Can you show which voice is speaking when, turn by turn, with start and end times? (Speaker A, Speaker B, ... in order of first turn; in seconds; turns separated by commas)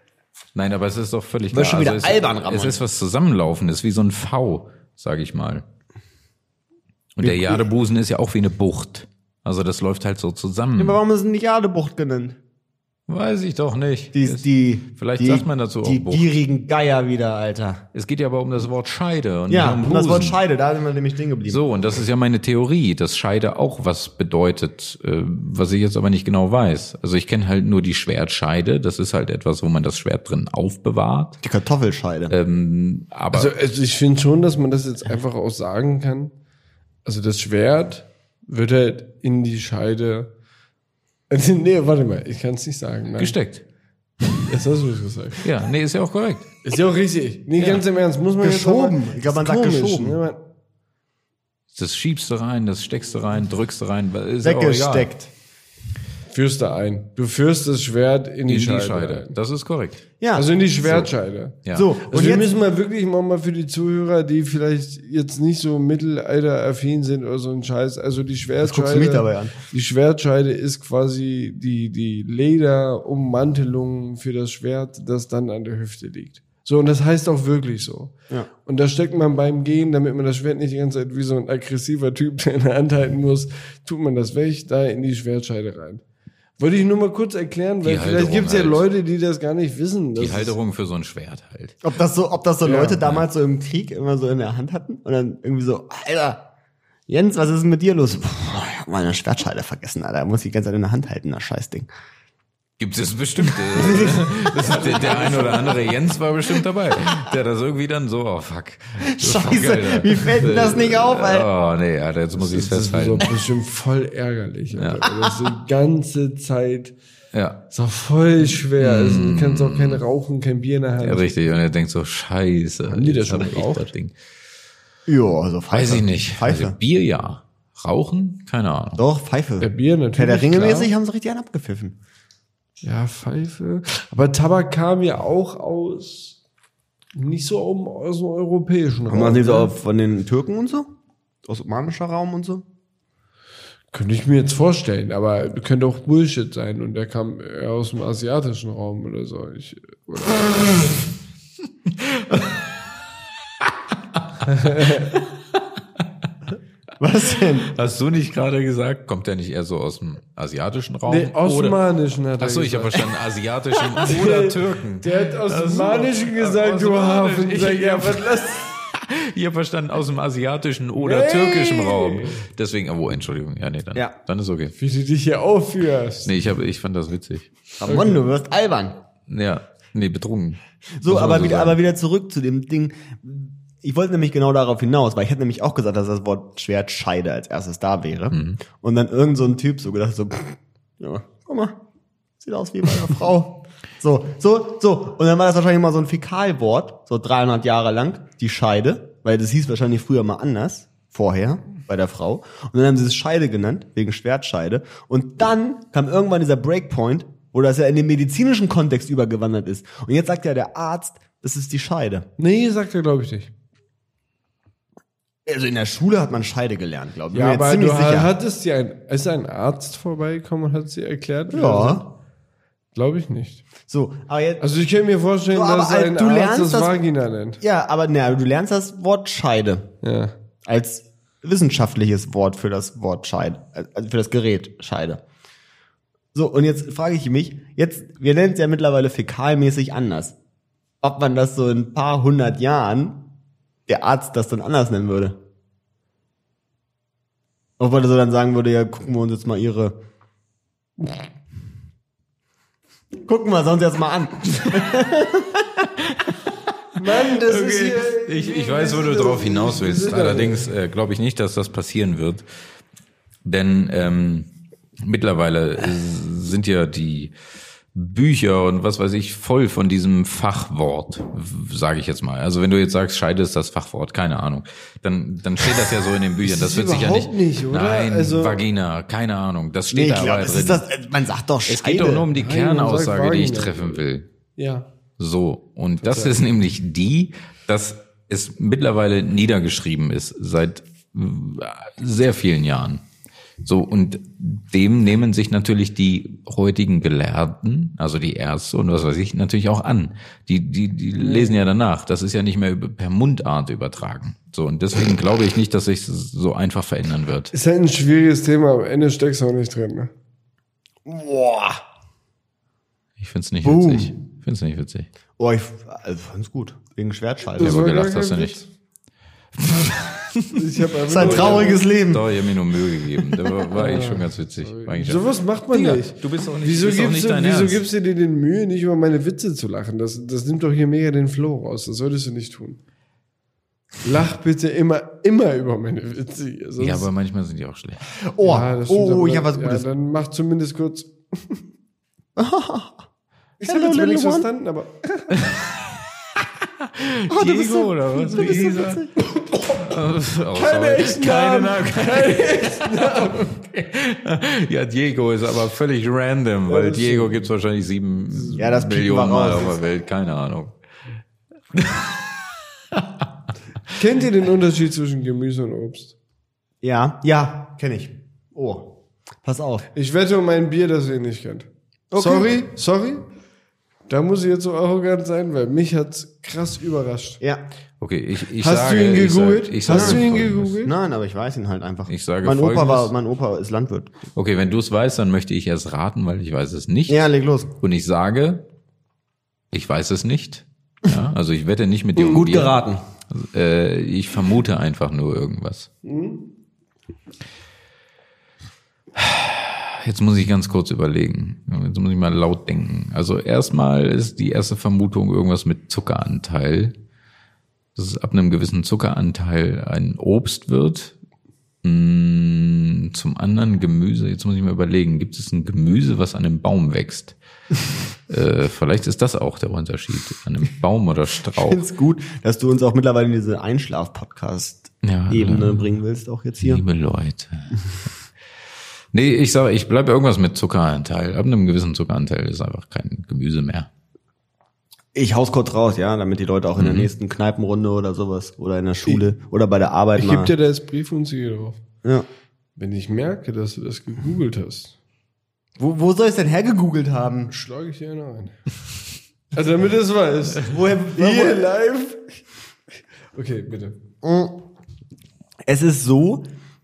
Speaker A: 0.6-5.6, Speaker B: 1.5-2.8, Speaker A: 7.2-11.0, Speaker B: 7.2-7.7, Speaker B: 10.8-12.4, Speaker A: 13.1-16.3, Speaker B: 14.1-17.8, Speaker A: 17.9-20.4, Speaker B: 19.5-21.6, Speaker A: 21.5-31.4, Speaker B: 31.4-32.3, Speaker A: 32.3-33.5, Speaker C: 33.3-36.3, Speaker C: 37.0-40.3, Speaker C: 41.3-43.4, Speaker A: 43.2-43.6, Speaker C: 44.4-45.5, Speaker A: 45.4-46.5, Speaker C: 46.6-50.4, Speaker B: 48.4-50.2, Speaker A: 51.7-55.1, Speaker B: 54.4-55.3, Speaker C: 56.3-59.4, Speaker A: 58.5-60.1, Speaker B: 60.2-60.5, Speaker C: 60.3-78.1, Speaker B: 61.7-62.5, Speaker B: 68.6-69.6, Speaker C: 78.7-86.0, Speaker C: 86.6-90.6, Speaker A: 87.8-88.9, Speaker A: 90.2-91.8, Speaker B: 91.8-96.5, Speaker C: 92.6-93.0, Speaker B: 97.1-101.9, Speaker A: 102.8-113.3, Speaker B: 103.4-105.7, Speaker C: 104.6-105.8, Speaker B: 109.0-111.5, Speaker C: 112.4-117.0, Speaker A: 114.7-115.2, Speaker A: 117.3-117.6, Speaker C: 117.7-121.3, Speaker A: 118.6-120.0, Speaker A: 121.0-124.1, Speaker C: 122.9-123.9, Speaker B: 125.1-126.8, Speaker A: 125.7-129.0, Speaker B: 129.0-132.0, Speaker C: 129.6-130.9, Speaker C: 132.8-136.4, Speaker C: 137.2-139.7, Speaker B: 139.1-140.9, Speaker B: 141.4-142.7, Speaker C: 143.9-150.9, Speaker A: 152.0-152.5, Speaker C: 154.5-155.1, Speaker B: 157.0-157.7, Speaker A: 157.7-161.8, Speaker C: 161.1-163.1, Speaker A: 162.4-174.8, Speaker C: 164.0-168.8, Speaker C: 171.0-172.4, Speaker C: 174.8-176.4, Speaker A: 176.2-177.5, Speaker B: 177.8-179.0, Speaker C: 177.8-178.2, Speaker A: 179.3-181.8, Speaker B: 181.0-191.8, Speaker A: 188.3-188.6, Speaker B: 192.4-212.3, Speaker C: 212.4-213.5, Speaker B: 215.5-218.3, Speaker C: 217.3-222.1, Speaker B: 221.5-222.1, Speaker C: 222.9-223.6, Speaker B: 223.9-224.7, Speaker C: 224.6-227.6, Speaker B: 225.5-227.0, Speaker B: 227.6-229.9, Speaker C: 230.0-230.3, Speaker B: 230.7-235.2, Speaker B: 236.3-240.3, Speaker B: 241.0-243.2, Speaker B: 243.9-245.4, Speaker B: 247.8-250.0, Speaker B: 253.2-255.7, Speaker C: 257.0-260.7, Speaker A: 257.4-262.5, Speaker A: 263.4-264.5, Speaker A: 265.0-267.3, Speaker A: 267.9-280.9, Speaker C: 276.4-278.6, Speaker B: 279.9-282.3, Speaker A: 281.7-284.2, Speaker C: 282.3-284.0, Speaker C: 284.6-284.9, Speaker A: 285.2-293.0, Speaker C: 286.0-286.4, Speaker A: 293.6-307.5, Speaker C: 301.2-301.6, Speaker C: 307.5-310.1, Speaker B: 311.1-311.8, Speaker A: 313.2-315.1, Speaker B: 313.6-314.1, Speaker B: 315.4-317.8, Speaker C: 317.6-318.7, Speaker A: 317.6-318.6, Speaker A: 319.6-320.6, Speaker C: 320.5-321.9, Speaker B: 321.1-322.3, Speaker A: 321.1-327.8, Speaker C: 323.7-332.8, Speaker C: 334.0-337.1, Speaker A: 336.8-338.1, Speaker B: 338.3-339.9, Speaker C: 338.4-341.6, Speaker B: 342.4-343.0, Speaker C: 343.6-345.4, Speaker B: 343.6-344.5, Speaker A: 345.4-345.7, Speaker A: 346.8-349.1, Speaker B: 347.3-349.2, Speaker C: 349.2-349.9, Speaker A: 349.8-360.8, Speaker C: 350.5-353.6, Speaker C: 356.7-357.5, Speaker B: 358.5-359.8, Speaker A: 361.7-362.4, Speaker A: 362.9-363.2, Speaker C: 363.9-366.1, Speaker B: 366.8-369.9, Speaker C: 369.9-373.3, Speaker B: 372.1-372.5, Speaker C: 374.1-377.4, Speaker A: 378.0-380.8, Speaker C: 378.6-380.9, Speaker B: 379.9-380.3, Speaker B: 380.8-384.2, Speaker A: 382.1-383.1, Speaker A: 384.4-387.3, Speaker B: 387.1-387.7, Speaker A: 387.8-388.6, Speaker A: 389.7-392.8, Speaker B: 392.2-393.0, Speaker A: 393.3-395.9, Speaker C: 396.0-396.4, Speaker A: 399.1-406.9, Speaker A: 408.0-411.2, Speaker A: 411.8-417.4, Speaker A: 418.3-421.8, Speaker B: 421.5-426.8, Speaker A: 425.0-425.9, Speaker A: 426.6-427.8, Speaker A: 429.1-433.9, Speaker B: 435.1-440.5, Speaker A: 436.8-437.1, Speaker C: 440.1-441.8, Speaker C: 442.8-445.0, Speaker B: 445.8-447.5, Speaker C: 447.5-448.6, Speaker C: 449.5-452.4, Speaker B: 450.6-451.7, Speaker C: 453.3-454.0, Speaker B: 454.2-454.6, Speaker B: 455.7-456.5